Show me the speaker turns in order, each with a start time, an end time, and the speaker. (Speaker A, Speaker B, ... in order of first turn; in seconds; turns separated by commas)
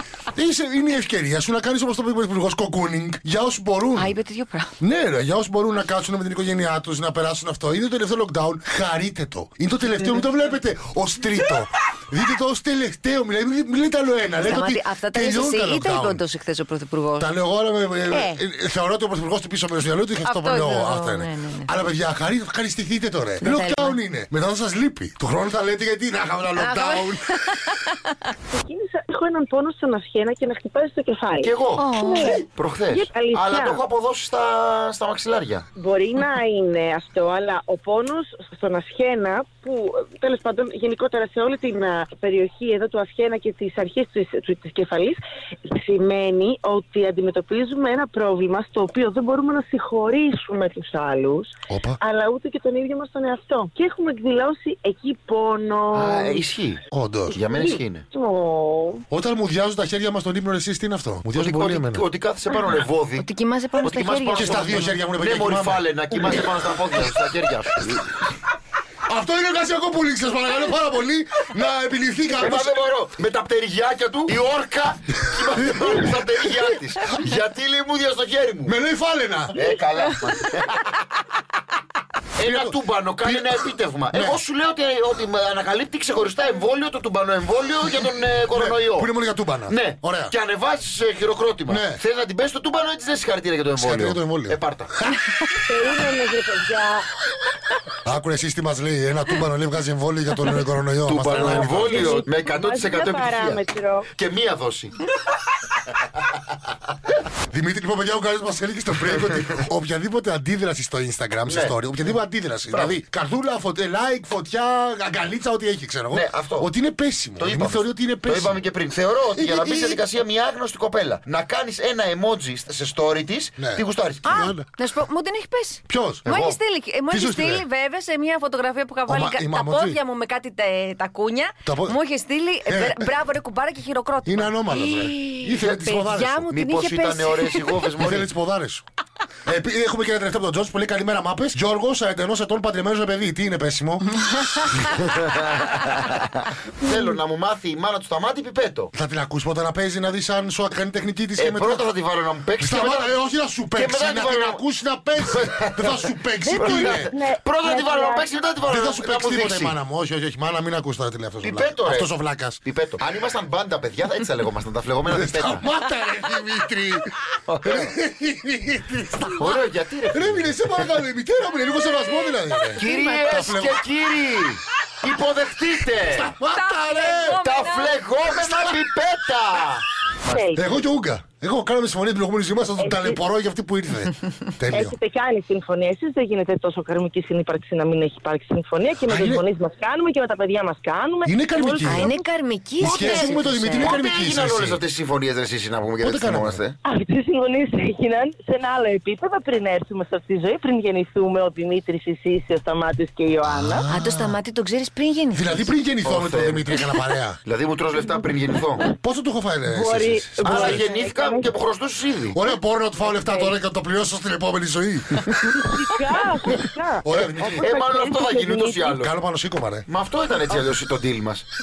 Speaker A: 0.3-4.1, Speaker B: 4.0-4.7, Speaker A: 4.8-16.2, Speaker B: 14.4-17.3, Speaker A: 17.2-27.2, Speaker B: 18.1-18.4, Speaker B: 20.2-21.7, Speaker B: 23.4-24.0, Speaker B: 26.6-27.8, Speaker C: 28.5-33.8, Speaker D: 31.4-31.9, Speaker B: 31.8-32.4, Speaker D: 32.5-35.6, Speaker C: 35.8-56.4, Speaker A: 51.7-52.0, Speaker D: 55.9-58.0, Speaker A: 56.9-57.4, Speaker C: 57.5-59.0, Speaker A: 59.1-62.0, Speaker D: 61.3-63.3, Speaker B: 63.2-64.9, Speaker D: 63.8-68.1, Speaker A: 64.3-67.3, Speaker A: 69.1-72.8, Speaker D: 72.3-78.8, Speaker A: 75.2-77.2, Speaker A: 78.7-79.6, Speaker D: 79.5-81.0, Speaker D: 82.4-89.1, Speaker A: 82.4-84.4, Speaker A: 88.5-90.3, Speaker D: 89.7-94.9, Speaker A: 91.7-92.0, Speaker A: 93.8-95.2, Speaker C: 95.7-97.0, Speaker A: 98.0-102.2, Speaker D: 101.0-103.6, Speaker C: 101.3-104.1, Speaker D: 104.2-105.0, Speaker A: 107.5-118.6, Speaker D: 111.5-112.1, Speaker D: 112.7-113.0, Speaker D: 116.1-116.7, Speaker D: 117.4-124.3, Speaker A: 119.3-120.0, Speaker A: 123.6-124.7, Speaker B: 124.2-138.0, Speaker A: 125.9-126.3, Speaker D: 126.2-126.6, Speaker A: 127.1-127.6, Speaker A: 129.1-130.0, Speaker A: 131.6-132.0, Speaker A: 132.7-133.1, Speaker A: 134.2-136.6, Speaker D: 136.5-138.3, Speaker A: 138.0-138.8, Speaker A: 139.5-144.1, Speaker B: 144.3-144.7, Speaker D: 145.1-146.3, Speaker D: 146.8-148.9, Speaker A: 148.9-151.8, Speaker D: 151.4-153.2, Speaker A: 152.6-157.1, Speaker D: 153.7-154.6, Speaker D: 155.2-159.8, Speaker C: 156.4-158.3, Speaker A: 158.7-162.6, Speaker D: 161.4-162.1, Speaker D: 162.6-165.7, Speaker A: 165.1-169.6, Speaker D: 167.5-167.9, Speaker D: 169.3-170.9, Speaker A: 170.1-173.8, Speaker B: 172.7-173.5, Speaker D: 172.8-176.3, Speaker A: 176.1-177.4, Speaker B: 176.4-178.0, Speaker D: 177.3-180.5, Speaker A: 178.3-178.8, Speaker C: 180.3-180.6, Speaker A: 180.5-184.9, Speaker C: 182.8-183.2, Speaker C: 184.7-192.2, Speaker A: 189.1-189.4, Speaker A: 191.2-192.1, Speaker B: 191.8-193.9, Speaker A: 192.8-194.8, Speaker D: 192.8-196.8, Speaker A: 196.0-196.6, Speaker C: 196.8-203.8, Speaker A: 203.4-204.4, Speaker B: 203.9-205.6, Speaker A: 205.3-207.4, Speaker D: 206.0-206.9, Speaker D: 207.4-208.9, Speaker A: 208.9-211.0, Speaker C: 209.7-211.5, Speaker D: 210.4-212.4, Speaker A: 212.3-215.3, Speaker C: 213.1-213.5, Speaker C: 215.5-218.9, Speaker A: 217.0-217.7, Speaker D: 217.6-219.1, Speaker A: 218.9-219.9, Speaker D: 219.9-221.4